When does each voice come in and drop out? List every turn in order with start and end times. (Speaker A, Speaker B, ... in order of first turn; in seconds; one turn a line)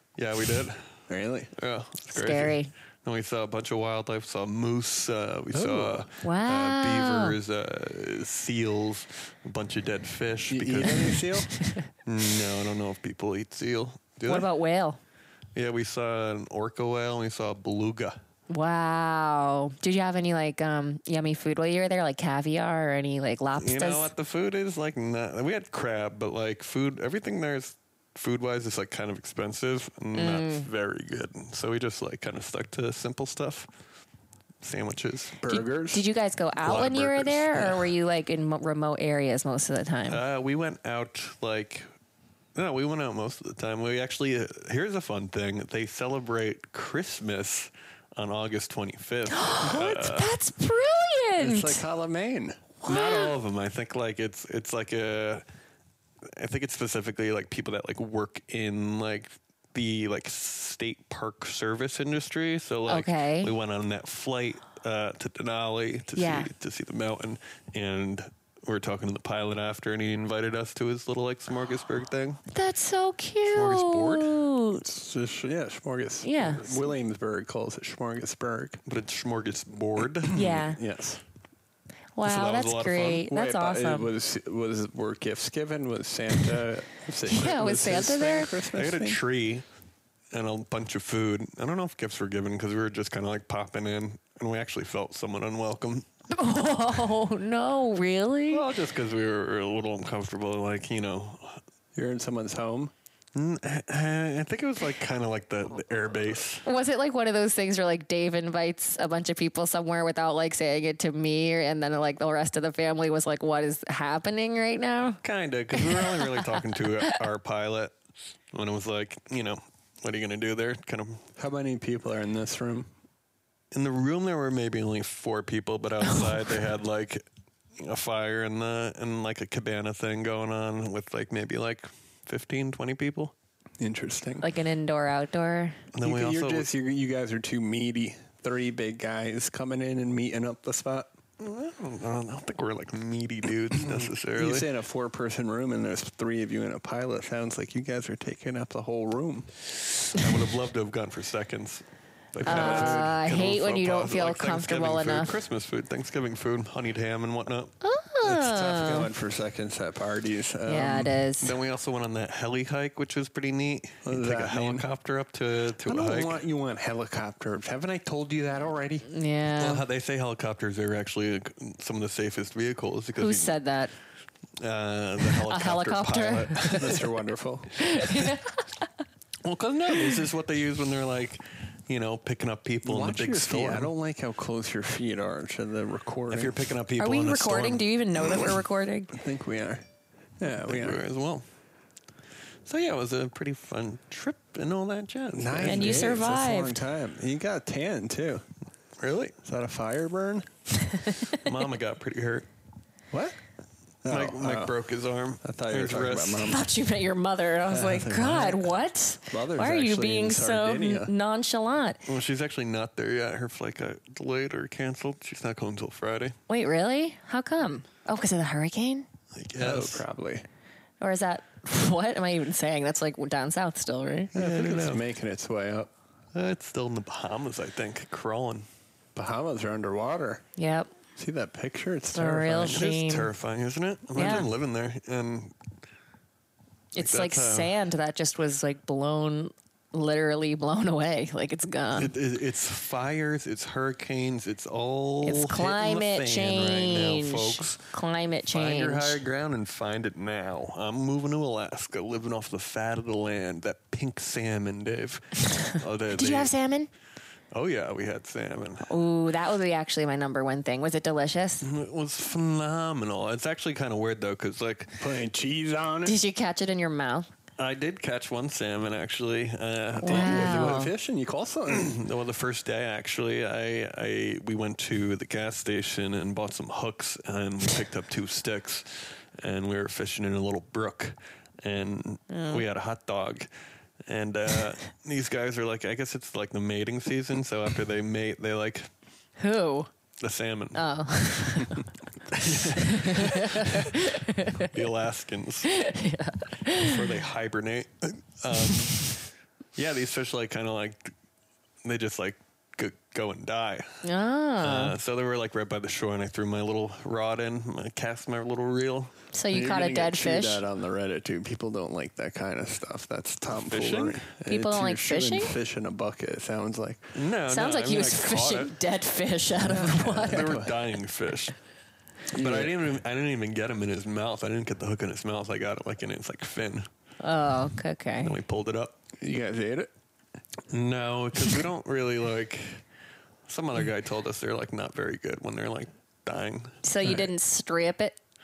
Speaker A: 0.2-0.8
Speaker B: 1.1-1.5
Speaker A: 1.6-11.2
Speaker C: 2.1-2.7
Speaker B: 5.5-6.0
Speaker C: 6.2-7.3
Speaker B: 10.5-11.5
Speaker C: 11.6-11.8
Speaker A: 12.1-14.5
Speaker C: 14.2-15.0
Speaker A: 15.5-18.2
Speaker C: 18.5-24.1
Speaker A: 23.6-33.7
Speaker C: 30.1-30.7
Speaker A: 34.6-35.4
Speaker B: 35.4-36.0
Speaker C: 35.5-40.2
Speaker A: 36.6-37.9
Speaker A: 40.1-41.9
Speaker A: 42.5-50.3
Speaker C: 49.3-51.8
Speaker B: 51.4-52.8
Speaker C: 52.8-53.3
Speaker A: 52.8-55.4
Speaker A: 56.3-72.4
Speaker C: 62.9-63.5
Speaker C: 66.2-66.5
Speaker C: 72.5-74.8
Speaker A: 73.5-74.4
Speaker B: 74.8-78.8
Speaker C: 76.2-76.8
Speaker A: 78.8-80.4
Speaker B: 80.3-81.2
Speaker C: 80.3-80.8
Speaker C: 82.2-84.1
Speaker A: 82.2-83.2
Speaker B: 83.3-89.2
Speaker C: 87.3-88.5
Speaker A: 88.7-89.6
Speaker A: 90.3-96.0
Speaker C: 96.3-98.6
Speaker A: 98.5-101.6
Speaker B: 101.9-102.9
Speaker A: 103.3-106.6
Speaker C: 106.6-115.2
Speaker A: 115.2-117.9
Speaker C: 115.7-117.1
Speaker A: 118.5-121.2
Speaker B: 121.4-122.9
Speaker A: 123.7-127.2
Speaker A: 127.8-133.3
Speaker B: 133.8-134.4
Speaker C: 134.4-135.8
Speaker A: 135.9-136.7
Speaker B: 136.0-141.1
Speaker A: 141.4-144.7
Speaker B: 143.8-149.5
Speaker A: 150.1-157.7
Speaker B: 152.4-153.1
Speaker C: 152.4-155.3
Speaker C: 157.8-159.1
Speaker B: 158.2-161.1
Speaker C: 160.7-161.5
Speaker A: 161.4-166.4
Speaker B: 164.0-164.9
Speaker B: 165.8-169.1
Speaker C: 169.1-169.8
Speaker A: 169.6-173.6
Speaker C: 173.2-173.9
Speaker A: 174.6-177.0
Speaker C: 175.2-177.0
Speaker B: 176.7-177.8
Speaker C: 177.8-178.8
Speaker A: 179.4-183.9
Speaker B: 182.8-186.6
Speaker A: 186.3-188.5
Speaker C: 187.0-189.2
Speaker B: 189.1-189.8
Speaker B: 190.4-191.0
Speaker A: 190.6-191.4
Speaker A: 192.7-196.2
Speaker B: 195.3-198.4
Speaker C: 195.7-196.8
Speaker A: 199.0-199.3
Speaker B: 199.4-200.5
Speaker C: 200.9-201.4
Speaker A: 201.3-202.5
Speaker B: 203.1-203.4
Speaker B: 204.0-204.8
Speaker A: 204.1-206.5
Speaker B: 205.4-206.6
Speaker C: 206.4-212.0
Speaker B: 207.7-208.7
Speaker B: 209.3-211.1
Speaker A: 212.1-216.4
Speaker C: 216.5-219.1
Speaker A: 219.3-220.0
Speaker B: 219.6-220.4
Speaker C: 221.0-224.3
Speaker B: 224.3-225.9
Speaker A: 224.3-225.0
Speaker A: 226.3-228.7
Speaker B: 229.1-230.4
Speaker C: 230.6-230.9
Speaker B: 231.2-232.8
Speaker C: 232.1-233.3
Speaker A: 232.6-235.5
Speaker C: 234.1-234.5
Speaker C: 236.9-242.1
Speaker A: 237.0-237.7
Speaker A: 241.9-247.8
Speaker C: 245.2-249.2
Speaker A: 248.5-256.5
Speaker C: 256.1-256.9
Speaker A: 257.5-258.9
Speaker C: 258.9-261.6
Speaker A: 261.6-265.0
Speaker B: 265.0-266.2
Speaker C: 266.0-267.3
Speaker A: 267.6-270.8
Speaker C: 270.0-270.9
Speaker B: 270.0-272.0
Speaker A: 271.7-283.5
Speaker C: 282.3-282.6
Speaker A: 284.1-288.9
Speaker C: 289.4-289.9
Speaker A: 290.2-290.8
Speaker C: 290.7-294.7
Speaker A: 292.3-293.9
Speaker A: 294.6-295.7
Speaker C: 295.7-297.0
Speaker A: 296.7-299.2
Speaker A: 299.8-301.1
Speaker A: 301.8-304.0
Speaker C: 304.0-304.9
Speaker A: 304.6-309.1
Speaker C: 309.3-310.6
Speaker B: 309.5-317.1
Speaker A: 313.5-314.2
Speaker C: 314.4-315.5
Speaker A: 317.1-318.8
Speaker C: 317.5-320.5
Speaker B: 319.6-320.7
Speaker A: 320.2-321.5
Speaker A: 322.3-326.9
Speaker B: 322.3-322.8
Speaker C: 327.2-328.4
Speaker A: 328.2-329.0
Speaker B: 329.2-329.9
Speaker A: 330.7-332.8
Speaker A: 333.5-337.1
Speaker C: 336.8-338.2